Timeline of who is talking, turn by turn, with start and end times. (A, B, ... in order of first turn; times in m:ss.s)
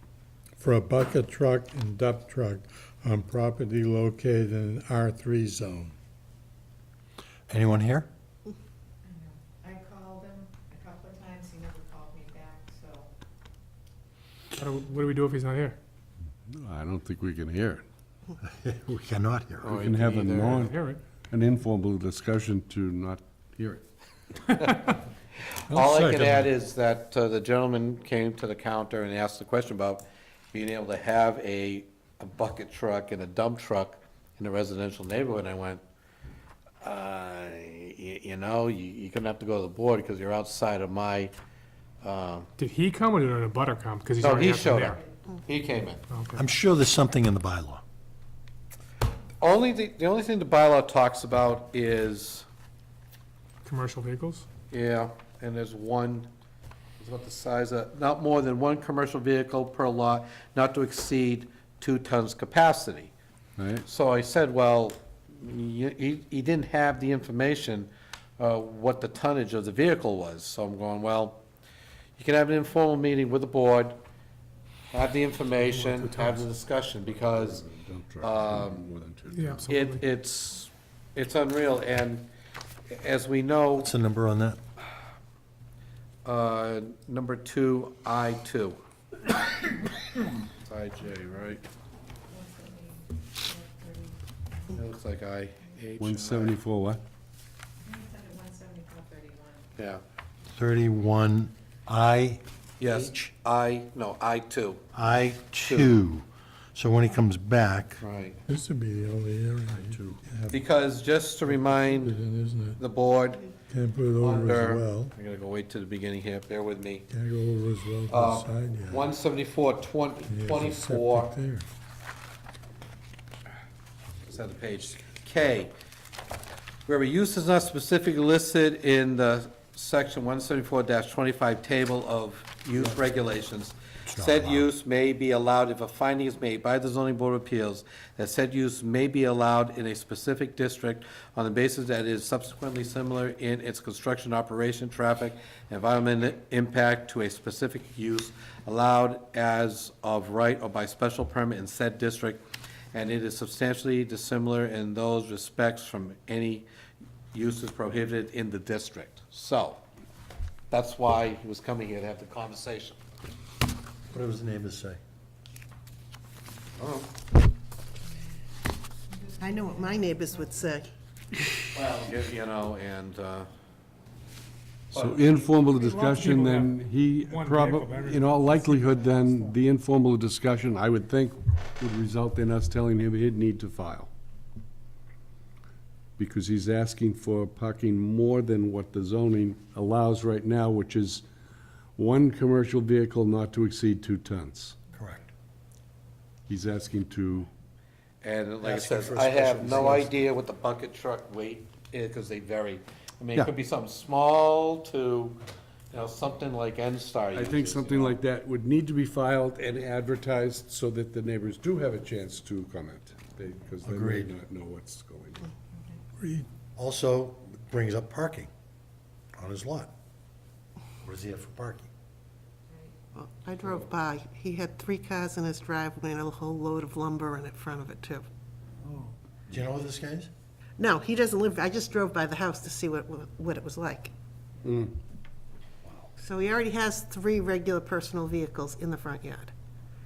0:00.6-0:05.9 A
0:07.5-0:08.1 B
0:09.6-0:13.0 C
0:14.6-0:15.8 D
0:16.5-0:17.8 E
0:18.5-0:19.8 B
0:19.6-0:20.7 F
0:19.7-0:23.8 E
0:20.7-0:21.0 D
0:25.7-0:35.8 F
0:25.7-0:26.5 A
0:36.8-0:41.3 F
0:42.0-0:42.5 F
0:42.6-0:45.0 D
0:44.2-0:46.0 F
0:46.1-0:46.4 D
0:46.4-0:47.8 B
0:49.4-0:52.5 F
0:53.6-0:54.5 D
0:54.7-0:56.3 F
0:57.0-1:03.1 F
1:03.6-1:03.9 E
1:03.9-1:11.4 F
1:12.2-1:14.0 F
1:14.9-1:17.7 F
1:15.6-1:16.5 D
1:17.0-1:19.7 E
1:18.2-1:18.8 F
1:19.3-1:20.0 D
1:19.7-1:22.3 F
1:22.9-1:23.9 F
1:23.8-1:24.6 B
1:26.2-1:28.8 F
1:30.6-1:31.6 F
1:32.3-1:34.2 C
1:34.7-1:36.6 F
1:36.0-1:37.0 E
1:37.9-1:39.6 C
1:39.8-1:40.0 F
1:40.5-1:43.3 B
1:42.8-1:46.0 F
1:44.9-1:48.0 B
1:48.0-1:48.4 F
1:48.5-1:50.6 A
1:49.8-1:50.2 E
1:50.5-1:52.2 F
1:51.9-1:52.8 A
1:52.8-1:53.5 F
1:53.7-1:55.1 A
1:54.2-1:57.1 F
1:57.1-1:59.1 A
1:58.1-2:01.3 F
2:00.3-2:01.7 A
2:04.3-2:05.7 F
2:06.9-2:32.4 F
2:14.1-2:14.7 B
2:32.9-2:36.7 F
2:37.3-2:39.8 F
2:40.7-2:43.0 F
2:44.1-2:45.0 B
2:46.8-2:47.1 F
2:49.4-2:50.9 G
2:51.7-2:53.5 F
2:54.9-2:55.6 F
2:54.9-3:04.1 E
2:55.7-2:59.5 D
3:06.2-3:11.2 E
3:12.0-3:14.8 E
3:14.9-3:15.3 B
3:16.5-3:17.5 E
3:18.2-3:25.4 F
3:18.6-3:20.1 B
3:25.9-3:28.2 F
3:27.3-3:35.5 E
3:33.8-3:34.3 B
3:36.2-3:36.5 A
3:36.8-3:38.5 B
3:39.4-3:39.9 B
3:41.0-3:41.9 B
3:43.2-3:48.3 G
3:49.5-3:50.3 B
3:50.8-3:54.1 G
3:54.6-3:55.0 E
3:56.2-3:59.5 G